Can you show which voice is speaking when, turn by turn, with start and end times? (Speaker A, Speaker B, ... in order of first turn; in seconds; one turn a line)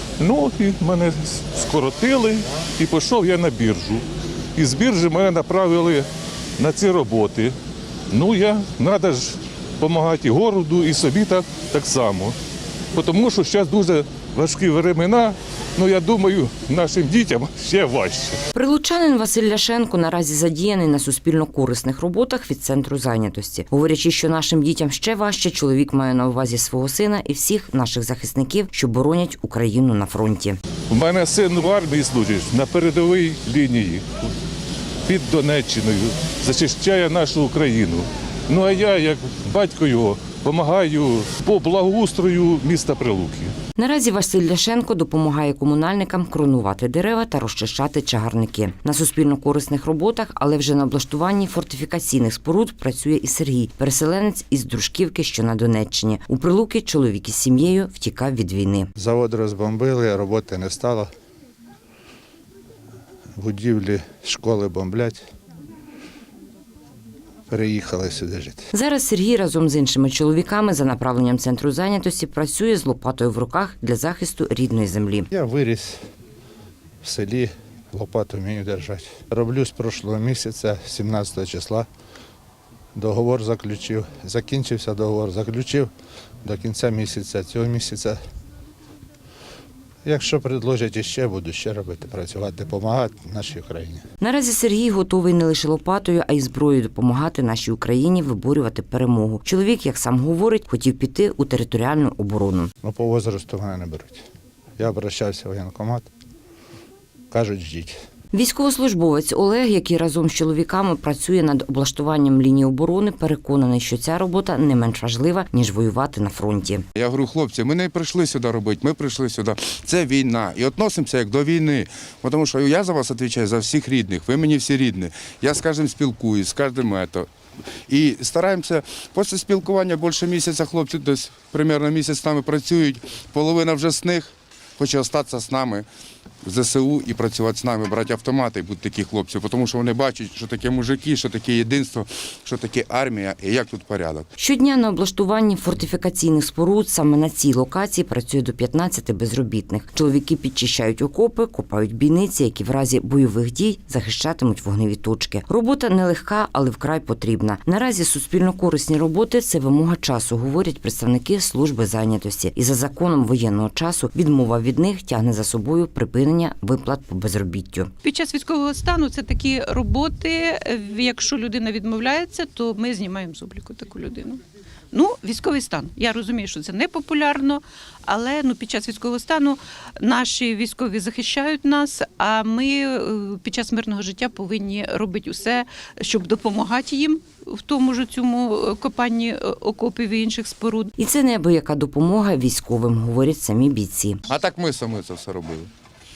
Speaker A: 0.2-4.0
Speaker A: 4.6-7.6
Speaker A: 8.1-12.4
Speaker A: 12.9-18.4
Speaker B: 18.5-30.6
Speaker A: 30.9-34.1
Speaker A: 35.1-43.5
Speaker B: 43.8-58.9
Speaker C: 59.0-61.1
Speaker C: 63.4-65.3
Speaker C: 67.5-68.7
Speaker B: 68.7-75.3
Speaker C: 75.3-76.0
Speaker C: 77.0-81.9
Speaker C: 83.0-85.9
Speaker C: 86.4-88.2
Speaker C: 90.0-94.0
Speaker B: 94.2-102.7
Speaker C: 102.8-104.2
Speaker C: 104.8-106.1
Speaker C: 107.3-108.0
Speaker B: 108.3-116.8
Speaker D: 117.0-127.3
Speaker D: 127.9-135.9
Speaker D: 136.5-144.3
Speaker B: 144.4-167.9
Speaker E: 168.0-190.9
Speaker B: 191.0-194.2
Speaker D: 194.3-195.7